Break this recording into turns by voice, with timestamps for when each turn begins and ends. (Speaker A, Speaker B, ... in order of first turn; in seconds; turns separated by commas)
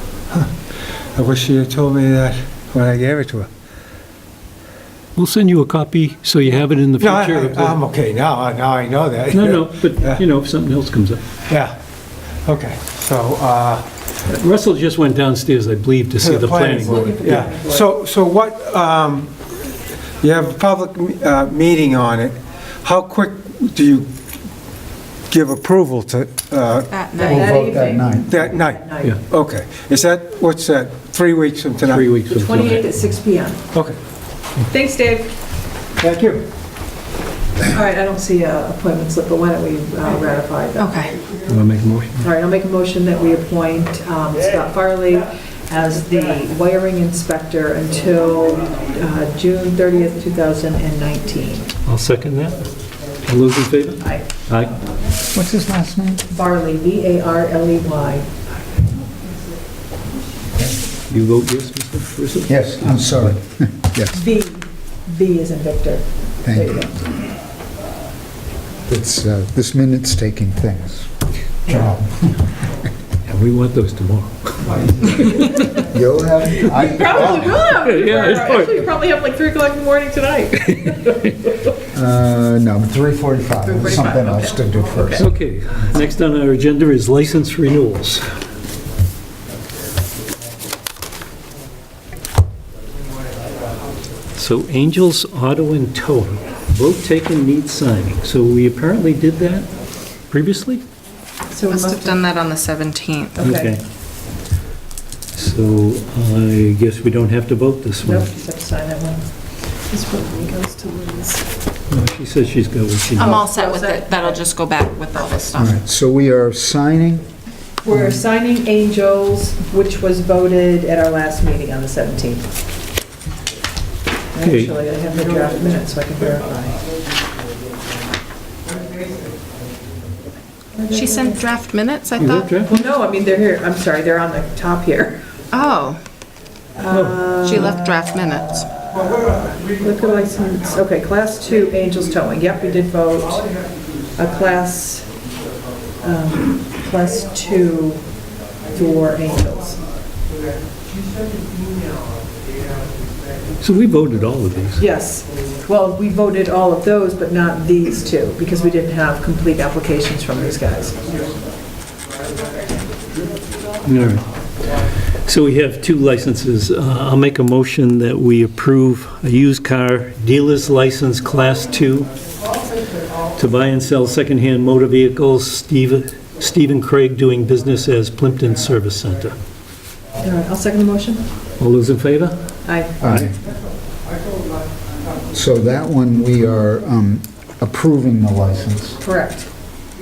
Speaker A: 0.3-3.5, Speaker B: 5.2-7.8, Speaker A: 7.0-10.2, Speaker B: 9.3-11.2, Speaker A: 12.4-13.9, Speaker B: 14.3-17.5, Speaker A: 16.2-19.3, Speaker C: 16.8-17.9, Speaker A: 20.2-24.1, Speaker A: 25.3-27.4, Speaker D: 26.9-27.5, Speaker C: 27.1-29.2, Speaker E: 27.2-28.4, Speaker A: 28.2-32.1, Speaker B: 31.8-32.9, Speaker C: 32.3-33.6, Speaker A: 33.7-34.0, Speaker C: 34.7-35.3, Speaker A: 36.0-36.4, Speaker C: 37.6-41.1, Speaker D: 40.8-41.1, Speaker B: 41.5-42.2, Speaker C: 42.2-51.7, Speaker B: 51.9-52.7, Speaker B: 53.2-54.7, Speaker E: 55.3-56.2, Speaker C: 56.3-58.3, Speaker B: 61.1-63.4, Speaker E: 62.5-64.2, Speaker C: 64.1-67.0, Speaker E: 66.4-66.9, Speaker E: 68.9-71.1, Speaker E: 71.6-72.3, Speaker B: 73.2-75.7, Speaker E: 75.6-77.7, Speaker C: 76.6-81.1, Speaker B: 77.7-78.8, Speaker B: 80.5-81.6, Speaker E: 81.9-85.3, Speaker C: 83.6-85.2, Speaker B: 85.1-88.3, Speaker B: 94.3-99.7, Speaker B: 100.3-100.8, Speaker C: 101.5-102.2, Speaker D: 101.7-103.4, Speaker C: 103.3-103.8, Speaker B: 103.4-103.8, Speaker B: 105.3-108.3, Speaker C: 108.0-109.2, Speaker C: 109.8-111.4, Speaker B: 111.9-113.4, Speaker C: 113.2-114.4, Speaker D: 113.2-115.8, Speaker E: 115.5-117.2, Speaker C: 117.8-122.5, Speaker C: 124.3-126.8, Speaker B: 124.4-124.7, Speaker A: 128.8-129.3, Speaker C: 130.7-131.4, Speaker D: 130.9-132.6, Speaker B: 132.2-132.7, Speaker C: 132.6-135.2, Speaker D: 135.5-136.0, Speaker C: 136.8-137.8, Speaker B: 136.9-137.7, Speaker D: 137.3-138.8, Speaker A: 138.9-140.6, Speaker C: 139.8-143.5, Speaker C: 144.1-145.1, Speaker C: 146.0-148.1, Speaker C: 148.7-149.8, Speaker A: 151.3-151.8, Speaker B: 153.6-154.8, Speaker C: 154.8-161.1, Speaker B: 163.8-164.2, Speaker B: 165.2-172.1, Speaker B: 173.3-179.4, Speaker C: 180.2-181.2, Speaker B: 181.6-182.4, Speaker C: 182.6-183.0, Speaker B: 183.0-183.3, Speaker E: 183.0-183.3, Speaker E: 185.3-189.0, Speaker C: 189.0-189.5